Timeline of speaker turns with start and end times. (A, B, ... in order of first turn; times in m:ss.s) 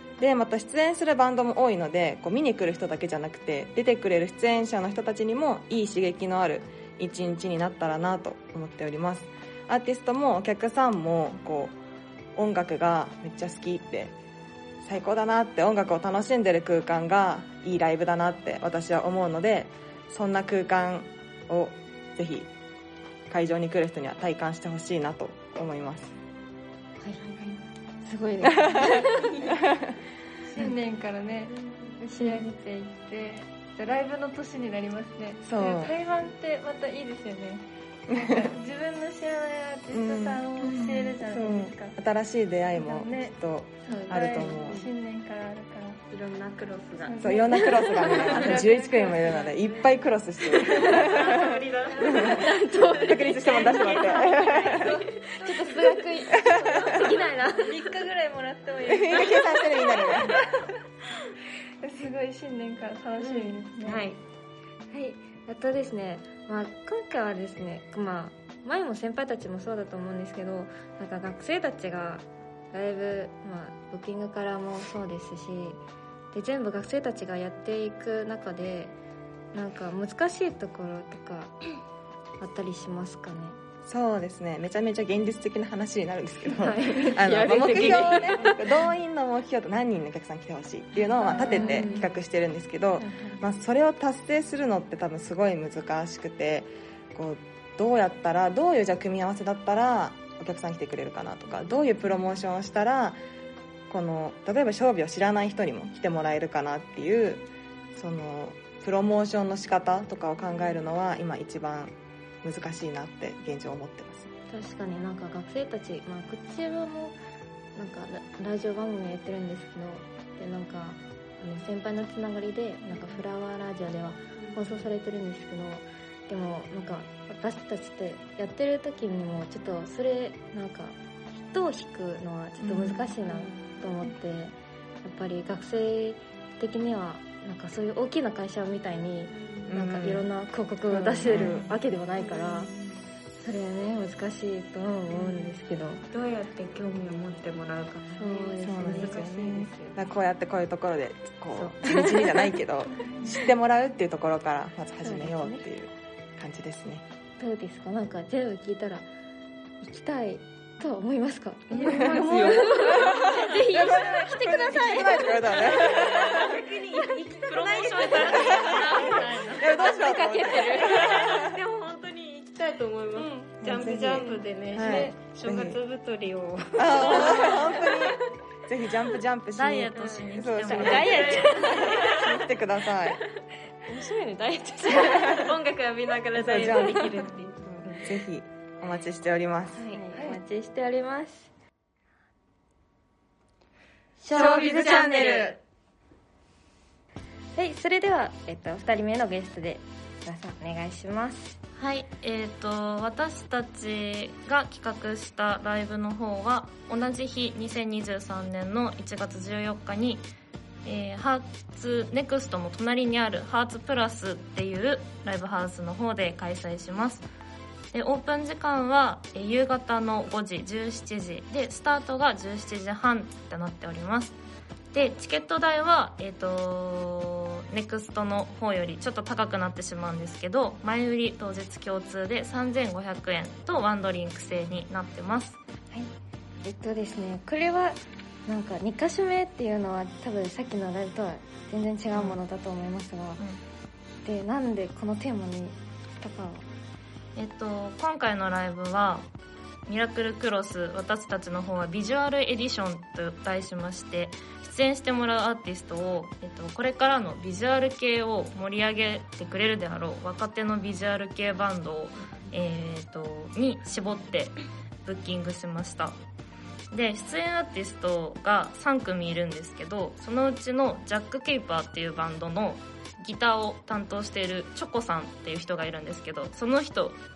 0:00.2-0:11.8 A
0:12.4-0:14.1 A
0:14.8-0:22.5 A
0:23.3-0:26.1 A
0:27.2-0:27.6 B
0:28.0-0:29.3 C
0:28.9-0:29.6 B
0:30.5-0:42.0 D
0:32.1-0:32.5 C
0:35.4-0:35.9 A
0:38.1-0:38.4 A
0:39.9-0:40.4 A
0:40.6-0:41.2 C
0:41.2-0:44.8 A
0:42.7-0:43.3 D
0:43.8-0:46.0 D
0:43.9-0:44.6 C
0:46.1-0:48.8 B
0:47.0-0:49.7 D
0:47.2-0:52.4 A
0:49.3-0:49.7 B
0:50.4-0:55.7 B
0:51.9-0:52.5 D
0:52.0-0:57.9 C
0:53.0-0:55.0 A
0:54.6-0:56.2 D
0:56.3-0:57.0 A
0:56.8-1:00.7 D
0:58.9-1:00.4 A
1:01.8-1:04.1 D
1:03.2-1:04.2 B
1:04.9-1:15.8 C
1:16.3-1:18.9 C
1:19.5-1:21.5 C
1:22.4-1:23.6 C
1:23.8-1:43.2 A
1:26.5-1:28.6 C
1:31.2-1:32.0 B
1:31.2-1:32.1 C
1:31.5-1:31.9 D
1:43.9-1:54.3 A
1:54.5-1:57.1 C
1:57.8-2:22.7 C
2:04.4-2:04.7 B
2:13.1-2:13.8 B
2:19.3-2:19.7 B
2:19.7-2:20.3 A
2:20.9-2:21.7 A
2:21.3-2:21.6 B
2:22.2-2:23.0 B
2:23.4-2:26.0 C
2:25.2-2:25.5 B
2:26.1-2:30.0 B
2:28.1-2:29.7 C
2:28.6-2:37.0 A
2:31.5-2:32.5 C
2:35.0-2:35.6 C
2:37.4-2:39.1 C
2:39.8-2:46.0 C
2:41.7-2:44.1 B
2:41.9-2:43.2 A
2:42.0-2:42.3 D
2:43.8-2:46.5 A
2:45.0-2:58.2 B
2:47.4-2:49.7 E
2:48.3-2:48.8 A
2:49.5-2:51.6 A
2:49.6-2:51.2 C
2:53.2-2:53.4 C
2:53.6-2:55.8 A
2:56.8-3:03.2 A
2:57.2-2:57.4 C
2:59.6-3:01.8 E
2:59.9-3:02.5 B
3:00.7-3:02.0 C
3:03.9-3:05.5 C
3:04.8-3:08.1 B
3:06.4-3:07.1 A
3:07.7-3:09.8 A
3:09.8-3:10.3 B
3:09.8-3:11.5 C
3:14.2-3:15.6 C
3:14.3-3:15.6 A
3:14.3-3:15.5 B
3:17.5-3:21.6 C
3:21.8-3:30.3 E
3:30.8-3:37.2 E
3:37.9-3:44.4 E
3:44.9-3:55.6 E
3:56.6-4:03.4 C
4:02.1-4:02.4 E
4:04.2-4:06.6 C
4:07.4-4:09.2 E
4:09.9-4:26.2 E
4:26.9-4:37.2 E